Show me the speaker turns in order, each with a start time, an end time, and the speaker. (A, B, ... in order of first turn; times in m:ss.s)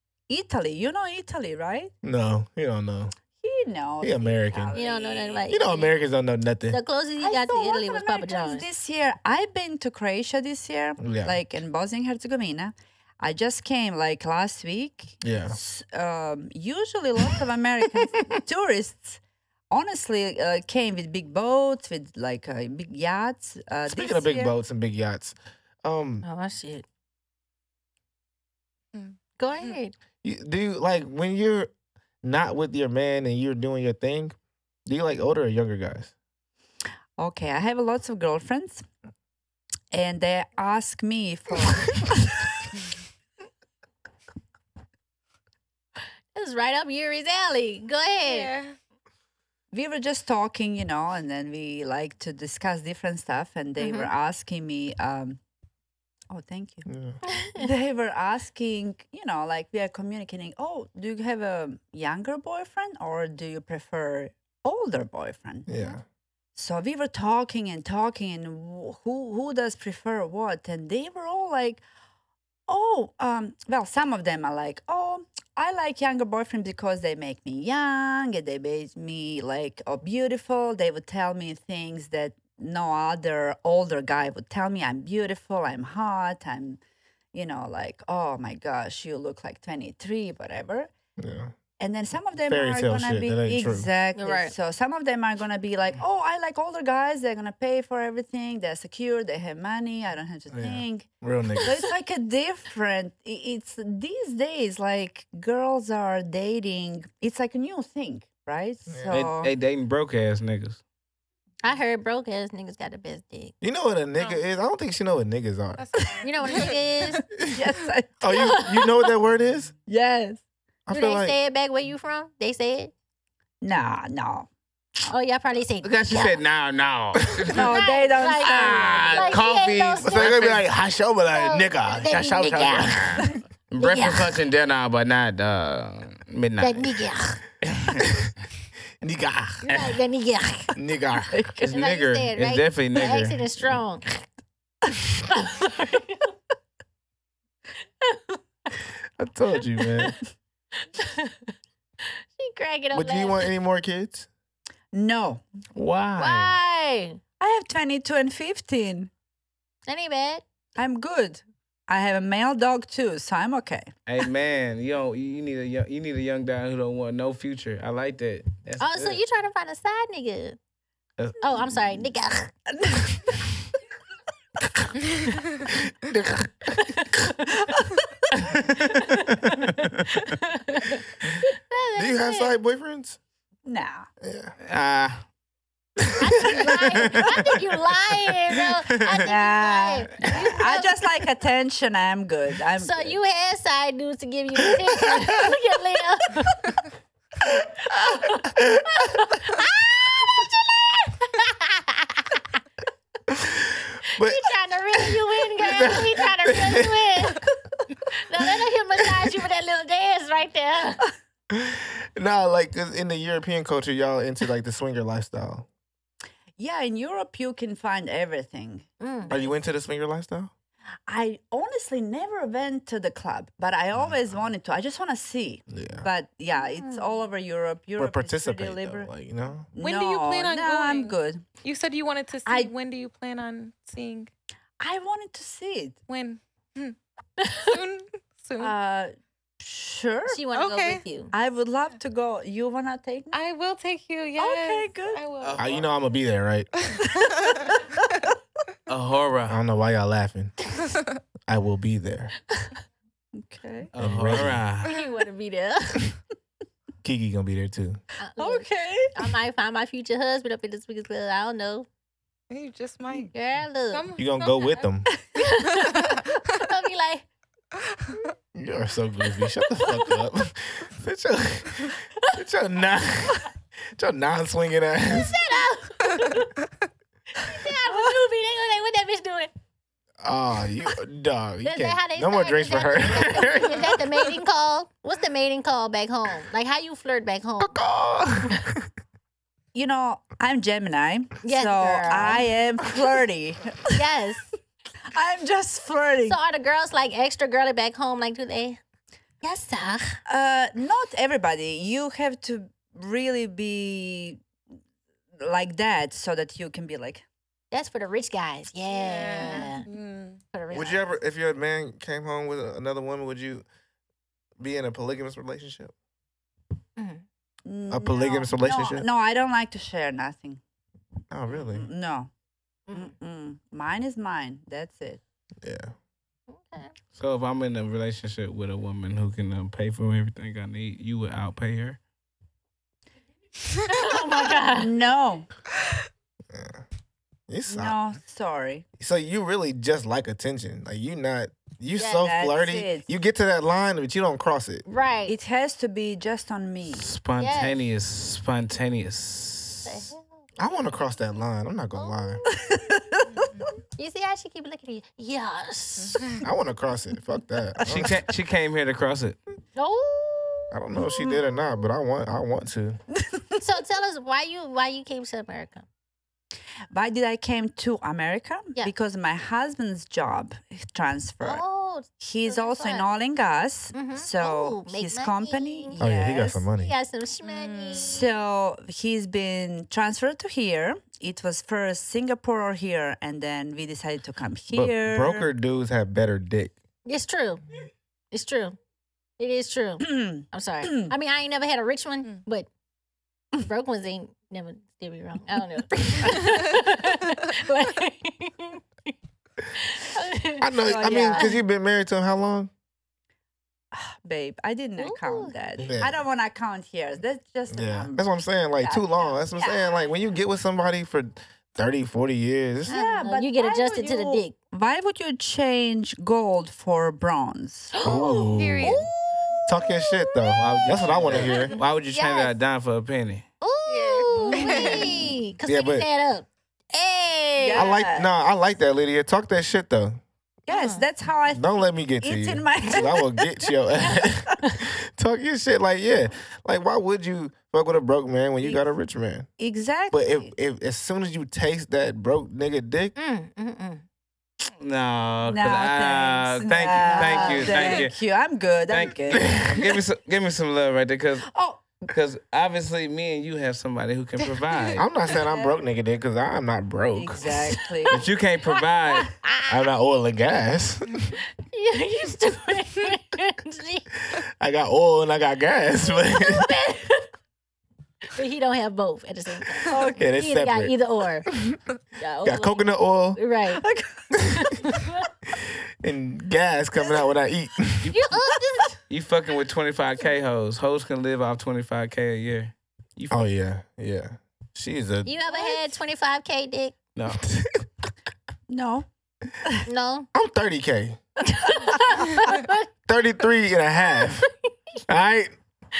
0:00.3-0:01.9 A
0:02.0-0:03.1 B
0:03.4-0:05.4 A
0:04.0-0:04.8 B
0:04.7-0:05.9 C
0:05.5-0:06.8 B
0:06.7-0:08.6 C
0:07.2-0:19.2 A
0:11.0-0:11.4 B
0:15.2-0:15.6 B
0:19.7-0:24.5 A
0:23.9-0:26.2 B
0:26.2-0:26.8 C
0:28.9-0:29.8 D
0:29.4-0:29.9 C
0:30.2-0:31.7 B
0:32.2-0:36.1 B
0:37.2-0:38.8 A
0:39.9-0:42.4 A
0:46.3-0:48.5 C
0:48.2-0:48.7 D
0:49.7-0:55.4 A
0:53.8-0:54.1 C
0:56.3-0:56.9 A
0:56.8-0:57.2 B
0:57.3-0:57.6 C
0:57.5-1:05.7 A
1:05.7-1:06.0 B
1:06.6-1:11.8 A
1:12.7-1:26.8 A
1:27.3-1:30.9 A
1:31.2-1:31.5 B
1:31.8-1:41.1 A
1:32.5-1:33.9 B
1:34.2-1:34.5 C
1:40.5-1:41.7 B
1:41.6-1:49.5 A
1:48.9-1:49.1 B
1:49.1-1:50.8 E
1:51.6-1:53.5 C
1:53.6-1:55.9 B
1:54.2-1:54.4 D
1:55.8-1:57.2 D
1:56.2-1:57.2 C
1:57.5-1:58.7 A
1:58.2-1:59.7 B
1:58.4-1:58.9 C
1:59.9-2:00.4 A
2:00.8-2:01.3 B
2:00.9-2:02.9 C
2:03.6-2:04.5 A
2:05.1-2:06.4 C
2:05.8-2:07.7 E
2:07.5-2:09.4 A
2:07.5-2:10.6 C
2:08.4-2:10.6 E
2:10.0-2:13.2 B
2:11.3-2:14.4 C
2:13.2-2:17.0 E
2:16.6-2:17.4 C
2:17.6-2:18.2 E
2:17.9-2:18.3 B
2:19.0-2:20.0 B
2:19.6-2:20.8 C
2:20.8-2:21.5 B
2:21.3-2:21.7 A
2:21.6-2:23.5 E
2:21.6-2:24.1 C
2:25.3-2:26.3 C
2:29.2-2:30.1 B
2:29.8-2:30.1 C
2:30.8-2:31.5 C
2:32.0-2:33.5 C
2:32.9-2:34.3 B
2:34.9-2:35.4 A
2:35.8-2:36.5 E
2:36.2-2:37.2 C
2:37.4-2:39.1 A
2:39.9-2:40.4 C
2:40.8-2:43.9 A
2:44.0-2:49.2 E
2:48.8-2:50.6 C
2:51.4-2:52.5 C
2:52.7-2:53.4 A
2:56.9-2:57.5 C
2:57.5-2:58.2 A
2:58.9-2:59.5 C
2:59.7-3:00.0 E
3:00.2-3:02.6 C
3:02.0-3:03.2 B
3:03.6-3:04.1 A
3:04.2-3:04.5 B
3:04.6-3:05.2 E
3:06.2-3:11.1 C
3:06.6-3:07.6 E
3:08.5-3:09.3 E
3:09.2-3:13.2 A
3:12.8-3:16.7 C
3:18.5-3:22.4 C
3:18.5-3:18.8 B
3:23.3-3:27.1 B
3:24.2-3:27.5 C
3:28.1-3:31.0 C
3:31.5-3:35.6 B
3:36.6-3:39.6 A
3:39.0-3:39.3 C
3:39.3-3:40.5 B
3:41.1-3:49.1 A
3:43.9-3:44.3 B
3:45.7-3:46.1 B
3:46.6-3:47.1 C
3:48.0-3:49.7 B
3:49.7-3:51.4 A
3:49.8-3:54.3 D
3:52.4-3:52.7 A
3:54.8-3:56.0 A
3:56.1-3:56.9 D
3:57.4-3:57.8 C
3:57.6-3:58.7 D
3:58.6-4:00.4 A
4:00.3-4:01.3 C
4:00.5-4:01.0 D
4:01.3-4:03.4 A
4:03.3-4:05.8 D
4:04.4-4:05.2 A
4:05.4-4:05.8 E
4:05.6-4:06.7 B
4:06.9-4:08.1 D
4:07.7-4:08.0 A
4:08.9-4:09.6 E
4:09.5-4:10.5 B
4:11.5-4:12.4 B
4:13.3-4:13.9 A
4:13.9-4:14.9 E
4:13.9-4:14.6 B
4:14.8-4:16.2 C
4:17.0-4:18.0 B
4:18.2-4:21.9 C
4:18.4-4:19.2 A
4:22.5-4:23.3 D
4:23.3-4:24.0 C
4:23.9-4:24.9 D
4:24.2-4:25.1 B
4:25.3-4:27.2 C
4:25.8-4:26.5 D
4:28.5-4:35.4 B
4:35.1-4:36.5 C
4:37.4-4:39.5 C
4:40.2-4:44.0 B
4:41.6-4:47.8 C
4:47.6-4:48.8 B
4:49.7-4:54.0 A
4:51.4-4:52.5 C
4:53.9-4:54.5 C
4:55.1-4:56.4 A
4:56.3-4:58.8 C
4:59.4-5:00.2 C
5:00.3-5:04.4 A
5:05.4-5:07.2 A
5:07.7-5:09.8 C
5:08.9-5:10.4 D
5:10.5-5:11.2 C
5:10.7-5:13.6 B
5:14.6-5:15.9 B
5:17.0-5:17.2 C
5:17.6-5:20.6 A
5:17.9-5:19.1 B
5:21.3-5:21.9 B
5:21.6-5:22.3 A
5:22.9-5:25.2 A
5:25.6-5:25.9 B
5:26.5-5:26.9 C
5:27.1-5:32.0 E
5:33.9-5:34.9 C
5:34.5-5:35.5 A
5:36.5-5:36.8 B
5:37.5-5:38.0 B
5:37.7-5:38.8 A
5:39.0-5:44.8 B
5:42.0-5:42.3 C
5:42.2-5:43.1 A
5:44.9-5:45.4 C
5:45.3-5:47.0 A
5:46.9-5:50.0 E
5:47.4-5:47.8 C
5:49.8-5:50.2 C
5:50.6-5:52.4 B
5:51.9-5:52.4 C
5:52.5-5:53.5 A
5:53.3-5:53.6 D
5:54.0-5:56.2 C
5:56.1-5:56.4 D
5:56.4-5:58.2 B
5:57.8-5:59.4 E
5:59.8-6:00.8 C
6:00.7-6:03.0 B
6:03.3-6:03.6 A
6:03.6-6:05.8 C
6:06.9-6:11.6 A
6:11.4-6:13.0 C
6:12.2-6:16.6 A
6:13.9-6:16.0 C
6:16.0-6:16.9 B
6:16.8-6:18.3 C
6:17.4-6:18.1 D
6:18.0-6:25.5 A
6:24.7-6:26.8 B
6:27.0-6:27.6 C
6:28.3-6:28.8 C
6:29.4-6:32.7 C
6:30.0-6:31.1 A
6:33.6-6:39.1 C
6:39.7-6:41.6 C
6:40.6-6:42.7 B
6:40.8-6:41.5 A
6:43.9-6:48.3 A
6:45.0-6:45.5 C
6:45.8-6:46.2 B
6:47.7-6:52.9 B
6:48.8-6:49.9 A
6:52.8-6:54.5 C
6:52.9-6:58.0 A
6:57.9-6:59.1 C
6:58.0-6:59.0 B
6:58.5-6:59.0 D
6:59.7-7:01.7 B
6:59.7-7:02.6 C
7:00.6-7:03.4 E
7:03.6-7:07.9 C
7:03.9-7:05.2 D
7:04.3-7:05.3 A
7:05.6-7:06.0 B
7:07.6-7:08.3 A
7:07.7-7:10.2 B
7:10.7-7:13.5 A
7:10.7-7:11.0 C
7:11.5-7:19.5 B
7:18.6-7:18.9 A
7:19.6-7:20.5 A
7:20.1-7:23.1 B
7:23.2-7:24.0 C
7:24.8-7:28.2 E
7:25.5-7:29.7 A
7:27.1-7:27.9 C
7:28.9-7:31.5 E
7:31.4-7:32.1 A
7:32.1-7:35.0 E
7:34.9-7:37.7 B
7:35.3-7:35.8 A
7:37.1-7:38.2 A
7:38.1-7:39.3 E
7:39.4-7:39.7 C
7:39.7-7:41.4 B
7:41.7-7:44.2 C
7:44.3-7:46.7 B
7:46.2-7:47.3 C
7:48.3-7:51.5 C
7:49.9-7:50.2 A
7:50.2-7:50.9 B
7:52.2-7:53.8 C
7:52.4-7:53.4 B
7:53.8-7:54.3 A
7:54.5-7:55.2 C
7:55.5-7:58.1 B
7:58.1-7:59.0 C
7:59.1-8:03.4 E
8:03.3-8:05.3 B
8:05.2-8:07.0 C
8:07.1-8:07.5 E
8:07.4-8:07.8 B
8:08.7-8:09.0 A
8:09.9-8:10.3 C
8:10.3-8:11.2 B
8:11.4-8:12.9 C
8:11.7-8:12.0 A
8:13.1-8:14.5 B
8:14.2-8:14.5 C
8:15.1-8:15.6 B